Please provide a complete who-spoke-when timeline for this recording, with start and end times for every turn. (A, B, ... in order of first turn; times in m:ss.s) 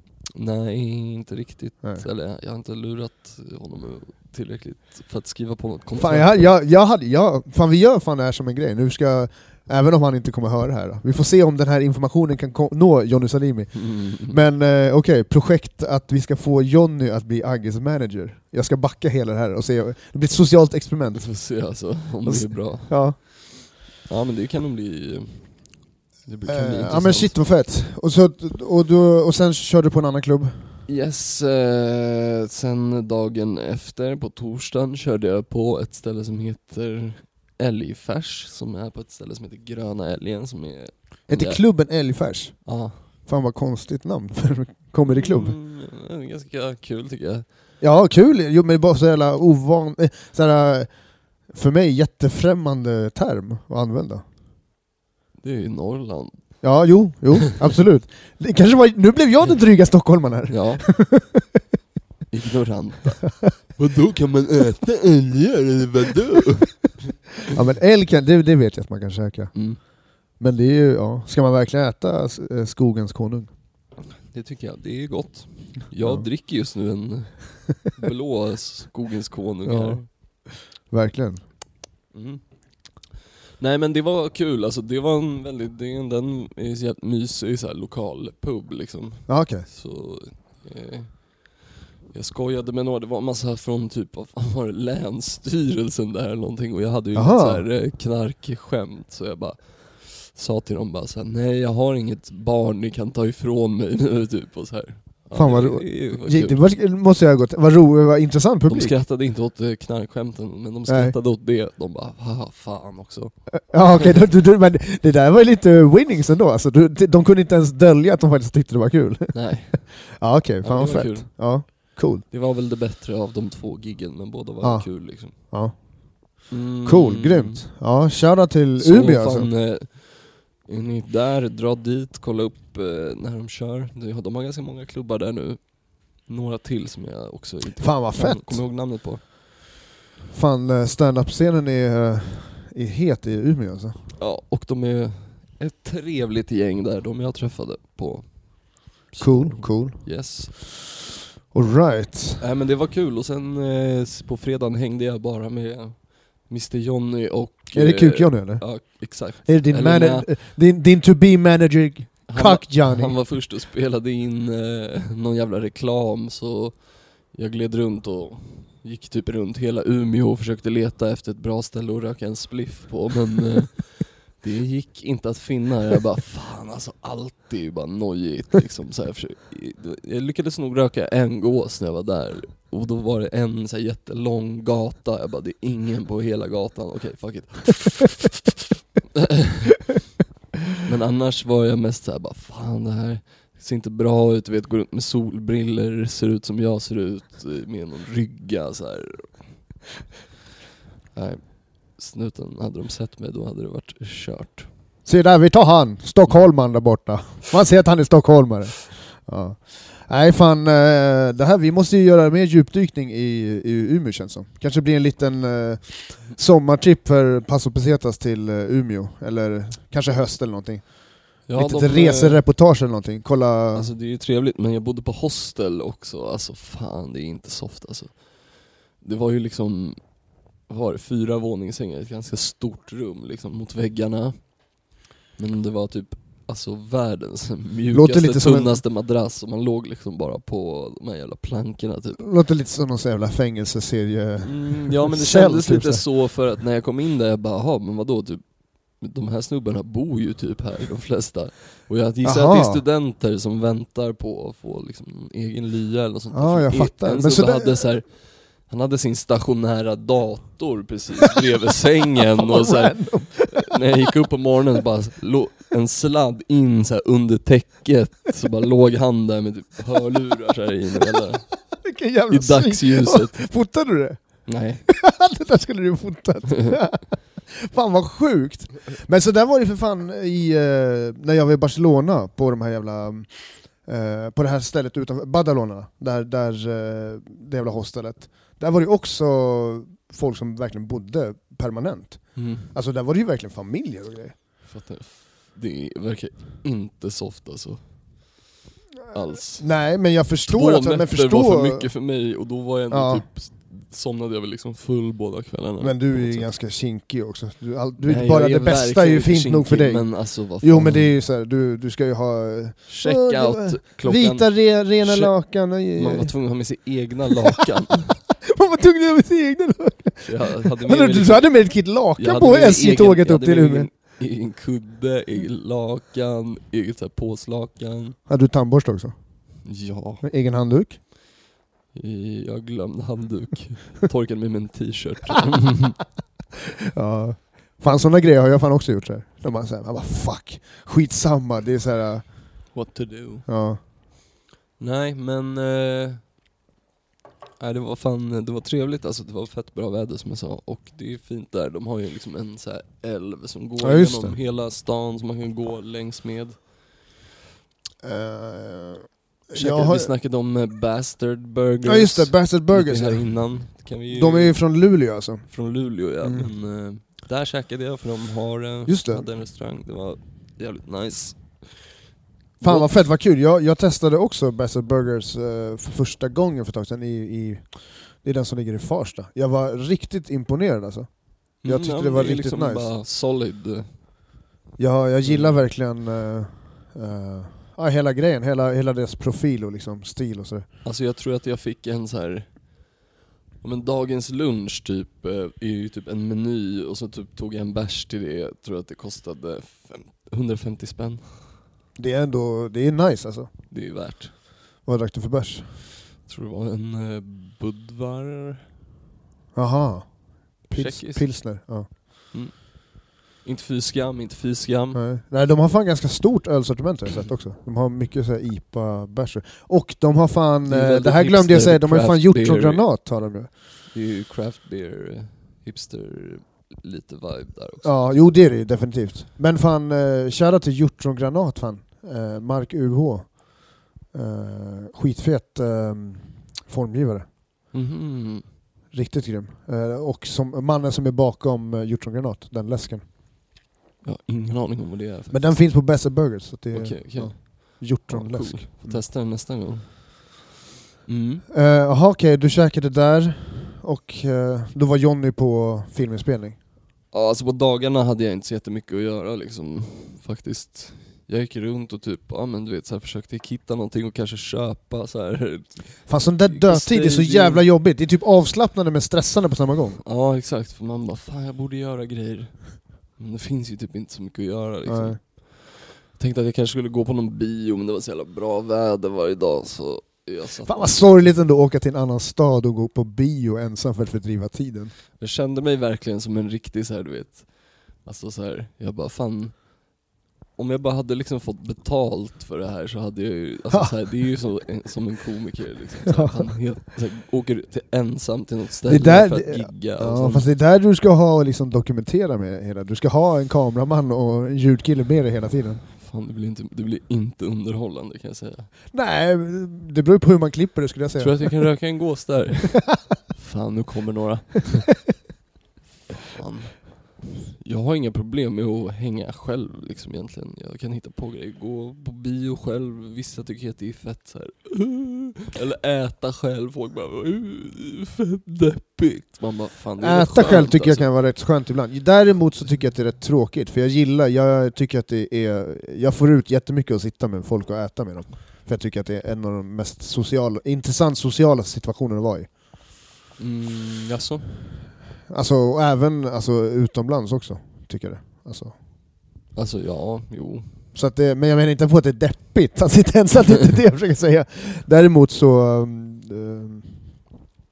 0:00.3-0:06.5 A
0:06.0-0:21.3 B
0:13.8-0:14.3 A
0:21.1-0:27.4 A
0:22.2-0:23.2 B
0:26.4-0:30.6 B
0:30.9-0:41.6 A
0:41.3-0:45.5 B
0:42.6-0:43.0 A
0:45.1-0:47.4 A
0:47.8-0:50.9 B
0:51.4-0:54.2 B
0:55.4-0:56.6 A
0:56.6-1:01.6 B
1:00.5-1:00.8 A
1:02.3-1:07.2 A
1:07.5-1:09.5 B
1:09.5-1:09.8 A
1:10.4-1:13.5 B
1:14.2-1:20.0 A
1:16.0-1:16.3 B
1:19.6-1:21.4 B
1:22.1-1:23.1 A
1:23.6-1:46.6 A
1:29.3-1:29.7 B
1:37.1-1:37.7 B
1:45.3-1:49.0 B
1:48.7-1:54.2 A
1:50.9-1:51.2 B
1:53.7-2:02.2 B
1:59.3-2:05.4 A
2:04.6-2:09.5 B
2:06.5-2:07.6 A
2:08.8-2:19.2 A
2:17.8-2:18.6 B
2:20.3-2:24.0 B
2:24.2-2:30.6 A
2:29.2-2:30.6 B
2:31.5-2:32.4 B
2:32.4-2:40.3 A
2:37.7-2:43.2 B
2:42.3-3:08.5 A
3:09.1-3:09.9 A
3:10.8-3:19.4 A
3:21.1-3:24.7 A
3:25.0-3:43.9 B
3:41.4-3:42.4 A
3:43.7-3:50.1 A
3:50.6-4:02.2 A
3:57.9-3:58.8 B
4:02.2-4:06.0 B
4:04.4-4:31.6 A
4:12.2-4:12.8 B
4:16.3-4:17.8 B
4:22.3-4:23.7 B
4:31.8-4:54.4 B
4:32.3-4:33.5 A
4:34.4-4:34.8 A
4:52.4-4:52.7 A
4:54.6-4:58.4 A
4:59.1-4:59.8 A
4:59.5-5:01.9 B
5:00.4-5:06.5 A
5:02.9-5:03.2 B
5:05.8-5:16.3 B
5:08.0-5:11.2 A
5:12.9-5:18.2 A
5:18.4-5:23.9 B
5:20.2-5:21.6 A
5:22.1-5:28.2 A
5:28.3-5:29.1 B
5:29.6-5:30.2 A
5:30.2-5:31.0 B
5:31.9-5:36.0 A
5:36.9-5:42.6 B
5:42.7-5:43.5 A
5:43.5-5:43.8 B
5:44.8-5:46.2 A
5:47.6-5:56.7 A
5:53.8-5:54.4 B
5:58.0-6:00.1 B
5:59.5-6:04.6 A
6:01.8-6:05.5 B
6:05.5-6:11.9 A
6:06.2-6:06.5 B
6:08.8-6:09.2 B
6:12.6-6:13.0 A
6:12.6-6:22.9 B
6:21.6-6:23.9 A
6:24.8-6:30.6 B
6:25.2-6:25.6 A
6:30.8-6:32.6 A
6:33.6-6:41.6 A
6:42.0-6:43.5 B
6:43.7-6:44.3 A
6:44.8-6:45.7 B
6:46.2-6:48.6 A
6:49.5-6:51.9 B
6:50.7-6:51.4 A
6:52.3-6:55.0 A
6:54.9-7:03.5 B
7:00.6-7:02.9 A
7:03.9-7:07.9 A
7:07.8-7:17.3 B
7:17.7-7:18.5 A
7:18.9-7:23.0 B
7:24.0-7:25.6 A
7:25.3-7:29.0 B
7:26.7-7:30.4 A
7:31.0-7:31.4 A
7:31.5-7:36.6 B
7:37.1-7:47.7 A
7:46.1-7:50.0 B
7:50.0-8:01.4 A
7:54.8-7:55.2 B
8:00.6-8:04.9 B
8:05.2-8:09.8 A
8:10.6-8:20.5 A
8:16.1-8:16.3 B
8:18.9-8:25.8 B
8:26.0-8:28.7 A
8:28.9-8:31.6 B
8:31.2-8:35.0 A
8:36.1-8:51.1 A
8:50.0-9:02.5 B
9:03.4-9:04.5 A
9:05.3-9:08.7 B
9:09.5-9:10.7 A
9:10.9-9:17.2 B